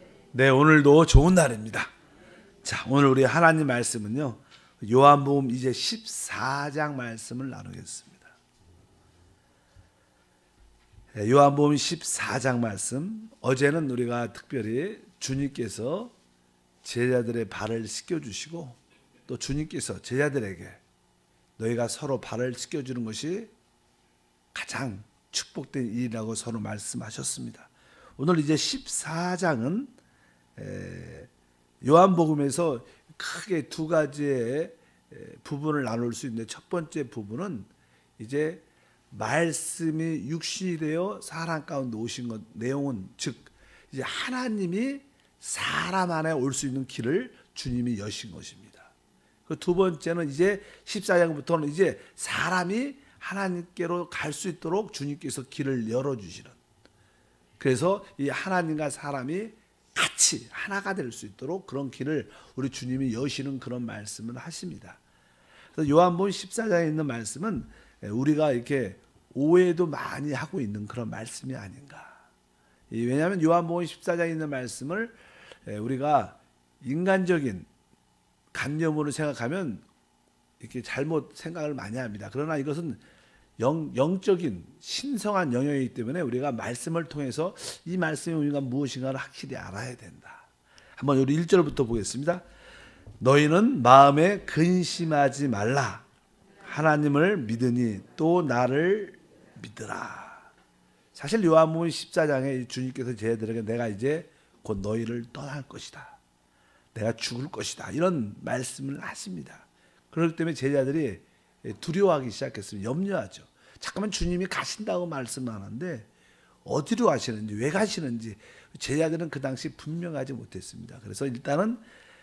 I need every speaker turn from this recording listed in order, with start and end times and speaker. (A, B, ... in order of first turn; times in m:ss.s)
0:00.3-0:01.9 A
0:02.6-0:08.3 A
0:11.1-0:16.1 A
0:16.8-0:20.8 A
0:21.6-0:23.5 A
0:24.5-0:29.9 A
0:30.6-0:31.3 A
0:31.8-0:48.9 A
0:49.5-0:56.6 A
0:57.6-1:05.0 A
1:05.8-1:12.2 A
1:12.9-1:17.7 A
1:18.5-1:19.8 A
1:20.6-1:23.0 A
1:23.6-1:30.4 A
1:31.0-1:32.4 A
1:33.2-1:36.0 A
1:36.6-1:40.5 A
1:41.1-1:46.2 A
1:46.9-1:56.1 A
1:56.6-2:01.8 A